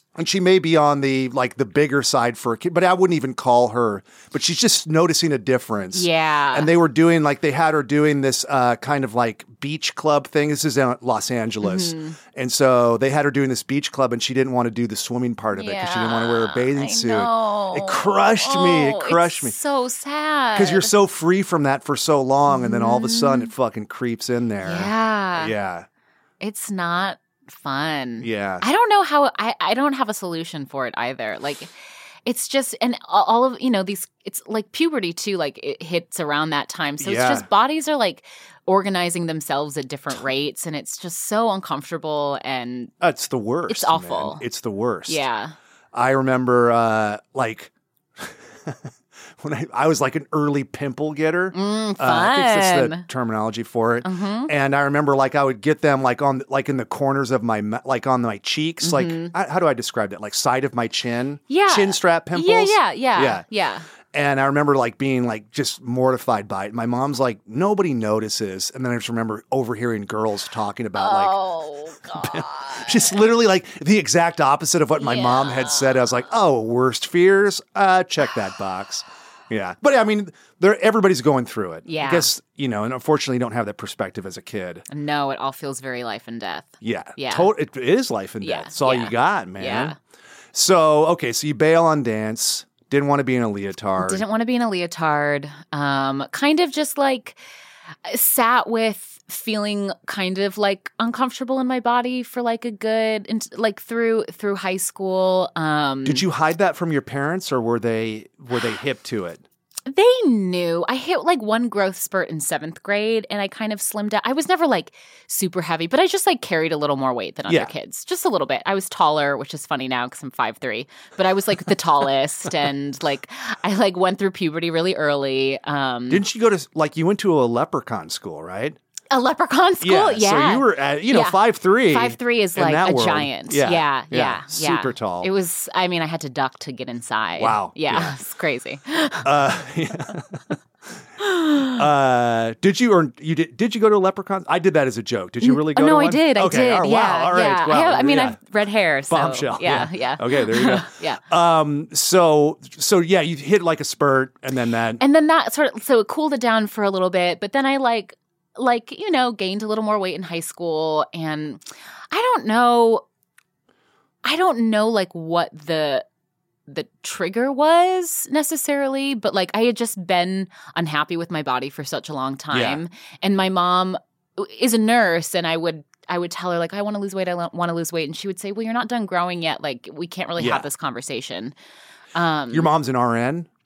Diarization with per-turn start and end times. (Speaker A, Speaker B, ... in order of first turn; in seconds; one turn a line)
Speaker A: 0.1-19.6
Speaker B: 5.9-6.7
Speaker B: 11.6-12.2
Speaker B: 15.5-20.9
Speaker A: 20.5-25.9
Speaker B: 22.5-23.5
Speaker B: 24.6-25.5
Speaker B: 26.4-31.7
Speaker A: 28.2-28.6
Speaker B: 32.2-42.9
Speaker A: 37.0-37.5
Speaker A: 43.0-45.2
Speaker B: 43.7-44.4
Speaker B: 45.1-45.5
Speaker A: 45.9-63.4
Speaker B: 51.5-53.0
Speaker B: 54.0-54.5
Speaker B: 58.8-59.3
Speaker B: 61.5-63.9
Speaker A: 64.1-71.4
Speaker B: 71.0-73.2
Speaker A: 72.0-84.8
Speaker B: 75.0-76.0
Speaker B: 81.8-82.3
Speaker B: 84.9-87.5
Speaker A: 86.8-90.0
Speaker B: 88.4-90.0
Speaker A: 90.5-94.2
Speaker B: 94.0-97.4
Speaker B: 98.0-106.2
Speaker A: 106.0-109.4
Speaker B: 109.9-126.2
Speaker A: 126.1-128.8
Speaker B: 129.1-139.4
Speaker A: 129.8-135.3
Speaker A: 137.4-138.1
Speaker A: 139.2-140.6
Speaker B: 141.2-141.8
Speaker A: 141.6-148.4
Speaker B: 145.4-151.2
Speaker A: 149.1-155.0
Speaker B: 155.0-161.6
Speaker B: 162.1-163.0
Speaker B: 164.2-166.0
Speaker B: 166.7-181.5
Speaker A: 172.5-172.8
Speaker A: 180.4-180.7
Speaker B: 182.1-182.7
Speaker A: 182.5-183.5